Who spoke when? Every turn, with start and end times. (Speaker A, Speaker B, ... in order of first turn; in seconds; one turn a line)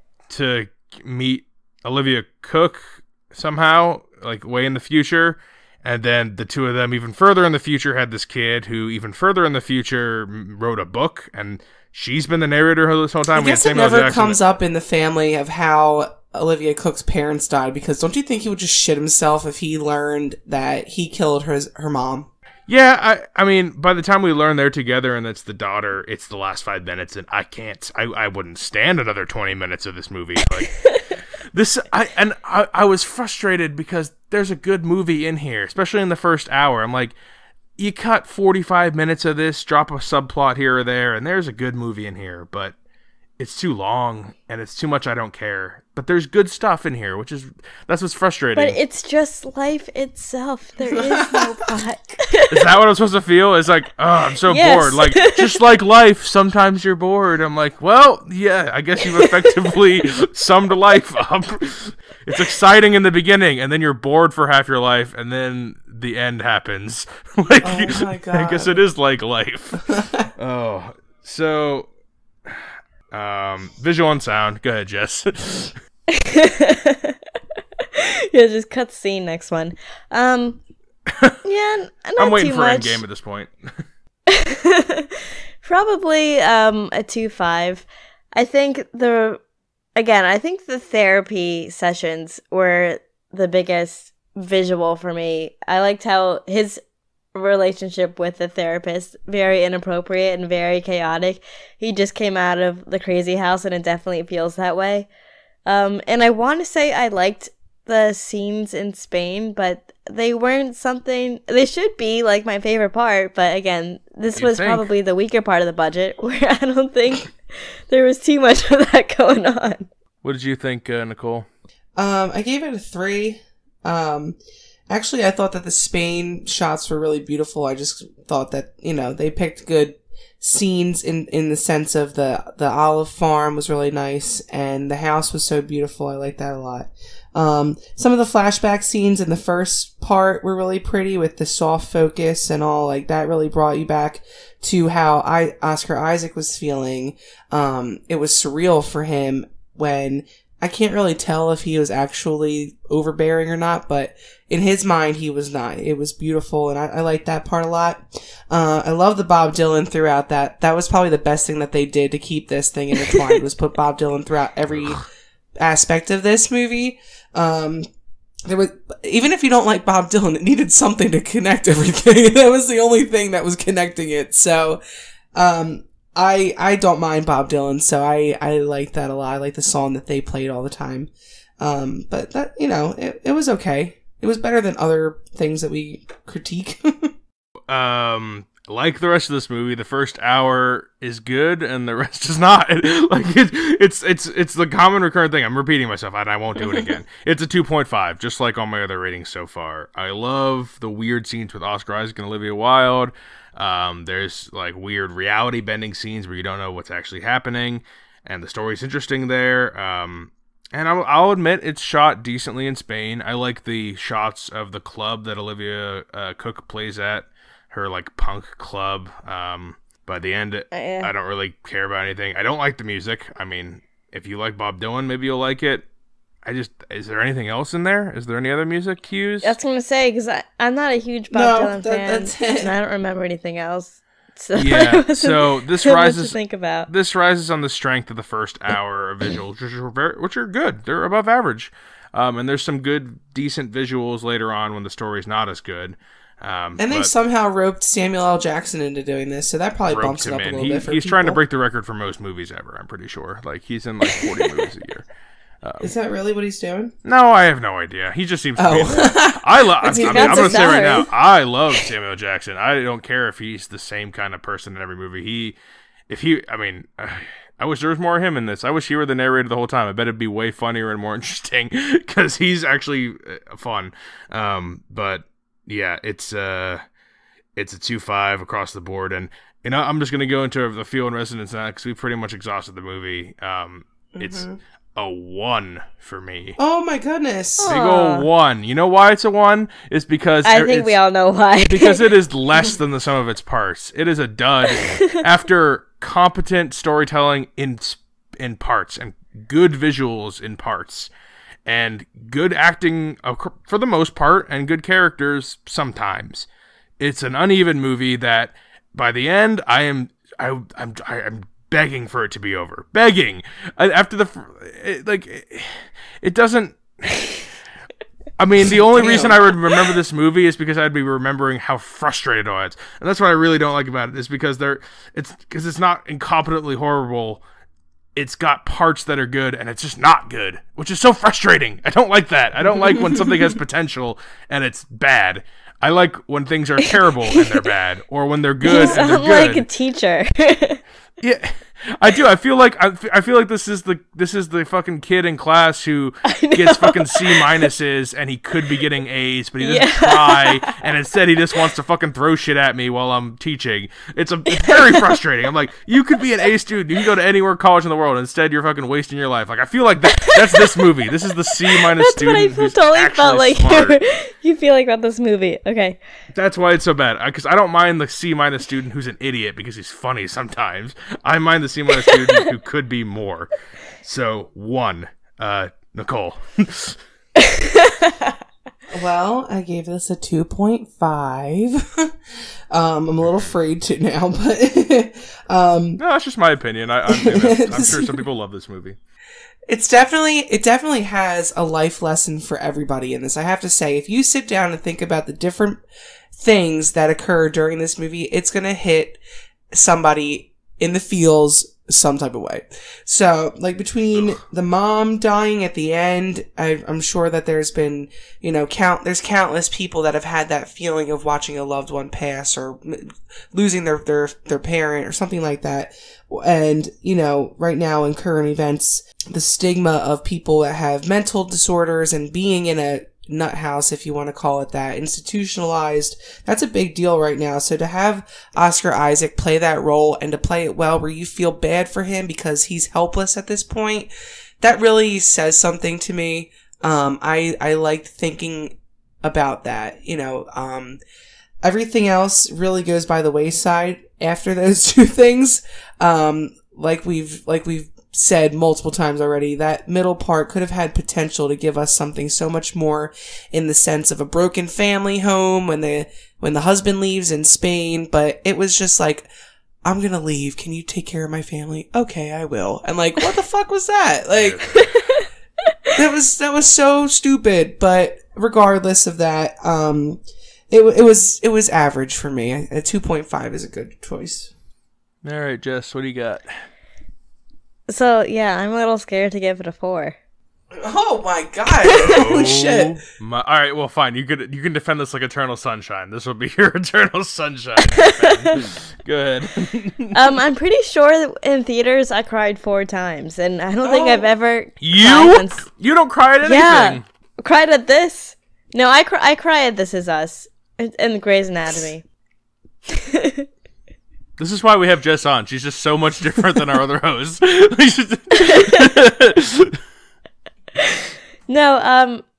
Speaker A: 0.3-14.4
Speaker B: 13.3-22.3
Speaker A: 22.7-30.9
Speaker A: 31.5-37.1
Speaker A: 37.8-42.7
Speaker A: 43.4-48.8
Speaker C: 48.6-52.7
Speaker B: 50.9-51.5
Speaker A: 52.5-71.9
Speaker C: 54.5-55.6
Speaker C: 59.0-59.6
Speaker B: 67.6-68.8
Speaker B: 69.9-70.3
Speaker A: 72.5-75.8
Speaker C: 76.1-77.2
Speaker C: 77.9-80.6
Speaker A: 81.1-81.4
Speaker C: 81.4-83.0
Speaker A: 82.2-83.5
Speaker C: 84.3-89.4
Speaker C: 90.0-96.8
Speaker C: 97.3-105.1
Speaker C: 105.7-119.9
Speaker A: 114.4-114.9
Speaker A: 120.2-121.5
Speaker B: 122.0-124.4
Speaker B: 124.9-165.1
Speaker B: 165.6-167.9
Speaker B: 168.5-174.8
Speaker B: 175.3-187.1
Speaker A: 187.7-225.8
Speaker C: 220.7-221.1
Speaker A: 226.4-229.6
Speaker C: 229.4-236.9
Speaker B: 231.3-232.7
Speaker A: 234.6-247.1
Speaker B: 246.8-251.4
Speaker A: 249.9-255.1
Speaker A: 255.6-255.9
Speaker B: 255.8-256.9
Speaker A: 257.1-265.6
Speaker B: 258.6-261.0
Speaker C: 259.9-261.1
Speaker A: 266.1-276.8
Speaker A: 277.6-284.4
Speaker B: 284.1-284.6
Speaker A: 285.0-286.6
Speaker B: 286.6-287.8
Speaker C: 287.6-288.3
Speaker A: 287.7-290.9
Speaker C: 290.4-292.0
Speaker A: 291.6-301.1
Speaker C: 294.9-295.2
Speaker A: 301.7-306.5
Speaker A: 307.0-317.4
Speaker A: 318.4-327.4
Speaker B: 318.6-319.4
Speaker A: 328.1-339.7
Speaker C: 338.6-340.8
Speaker B: 338.7-339.1
Speaker A: 341.2-364.0
Speaker C: 346.3-347.5
Speaker C: 349.6-350.7
Speaker C: 354.6-355.2
Speaker C: 360.1-360.9
Speaker C: 361.7-366.0
Speaker A: 366.3-377.0
Speaker C: 372.1-372.4
Speaker C: 377.4-378.3
Speaker B: 378.9-382.1
Speaker B: 382.7-386.0
Speaker A: 383.2-383.6
Speaker A: 386.0-389.0
Speaker B: 387.1-388.2
Speaker B: 389.7-395.8
Speaker B: 396.4-399.2
Speaker B: 399.7-434.1
Speaker A: 404.1-404.4
Speaker B: 434.6-441.0
Speaker B: 441.6-459.3
Speaker B: 459.8-464.8
Speaker A: 464.3-464.9
Speaker C: 464.8-465.2
Speaker B: 465.9-474.5
Speaker A: 475.2-476.5
Speaker C: 477.9-480.2
Speaker B: 480.8-483.0
Speaker A: 481.9-490.2
Speaker C: 487.9-488.6
Speaker C: 490.1-495.7
Speaker B: 493.8-494.3
Speaker A: 494.8-497.0
Speaker C: 496.4-502.1
Speaker C: 502.9-503.5
Speaker A: 504.4-509.8
Speaker C: 508.4-508.9
Speaker C: 510.8-512.2